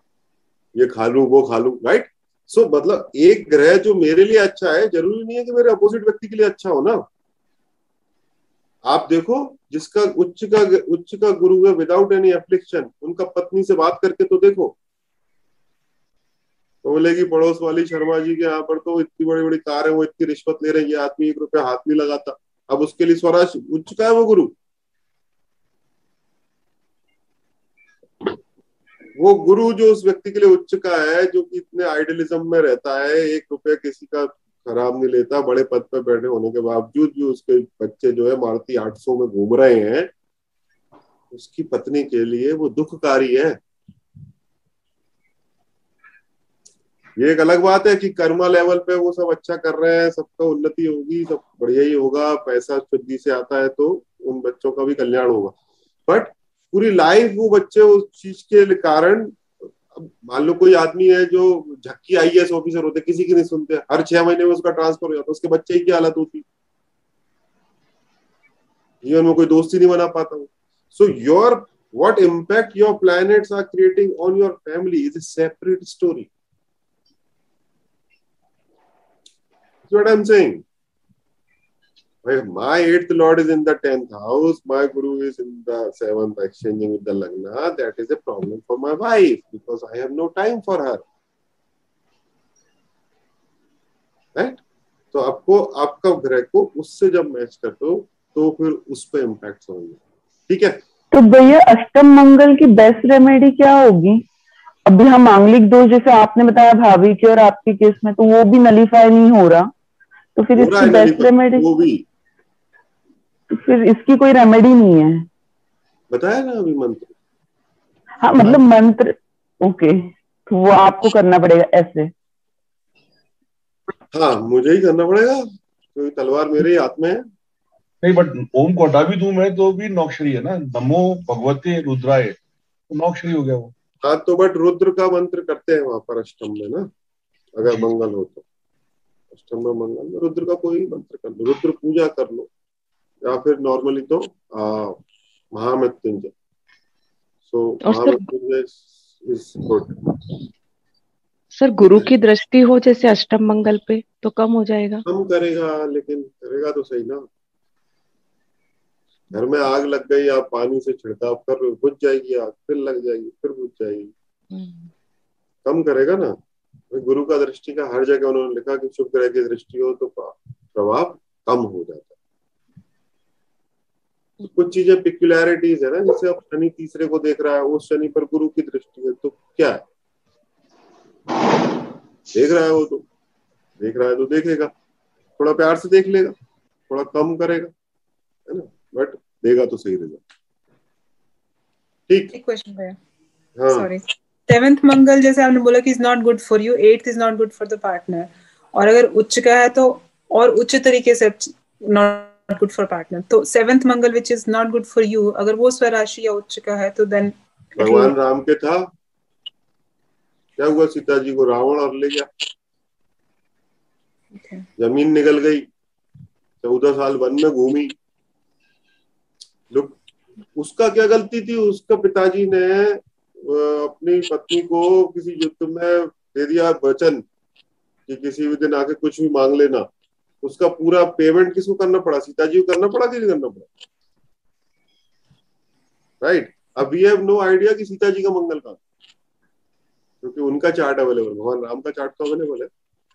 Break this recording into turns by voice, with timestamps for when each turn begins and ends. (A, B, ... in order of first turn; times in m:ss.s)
0:00.8-0:07.0 A
0:08.9-0:14.7 A
0:16.8-0:24.5 A
0:29.2-0:40.1 A
0:41.3-0:43.6 A
0:47.2-0:55.5 A
0:56.1-1:06.4 A
1:09.0-1:16.3 A
1:19.8-1:20.6 A
1:22.2-1:31.0 A
1:35.1-1:40.8 A
1:41.1-1:44.2 B
1:44.8-1:49.7 B
1:50.4-1:51.6 B
1:50.6-1:52.0 A
1:53.5-1:55.3 B
1:56.1-1:57.1 A
1:58.2-2:02.1 B
2:04.1-2:07.2 A
2:08.0-2:12.4 C
2:12.9-2:13.7 C
2:14.0-2:16.8 A
2:17.6-2:18.4 A
2:19.3-2:22.5 A
2:23.2-2:25.0 A
2:25.5-2:26.3 A
2:27.5-2:30.0 A
2:27.8-2:28.2 D
2:31.5-2:35.0 D
2:35.1-2:37.2 A
2:39.3-2:44.1 A
2:44.5-2:44.9 D
2:45.6-2:46.3 A
2:46.9-2:52.1 A
2:54.5-2:59.8 A
3:02.3-3:03.0 A
3:03.8-3:04.7 A
3:05.4-3:06.3 A
3:06.9-3:07.7 A
3:08.5-3:10.2 A
3:12.1-3:12.3 A
3:12.3-3:12.9 E
3:13.6-3:13.9 A
3:13.7-3:28.1 E
3:27.8-3:28.8 A
3:30.6-3:32.3 A
3:34.4-3:34.6 E
3:34.8-3:35.6 A
3:36.6-3:37.9 A
3:39.7-3:40.0 A
3:40.6-3:47.2 A
3:48.1-3:49.8 A
3:50.4-3:53.7 A
3:56.2-3:58.8 A
4:00.2-4:02.7 A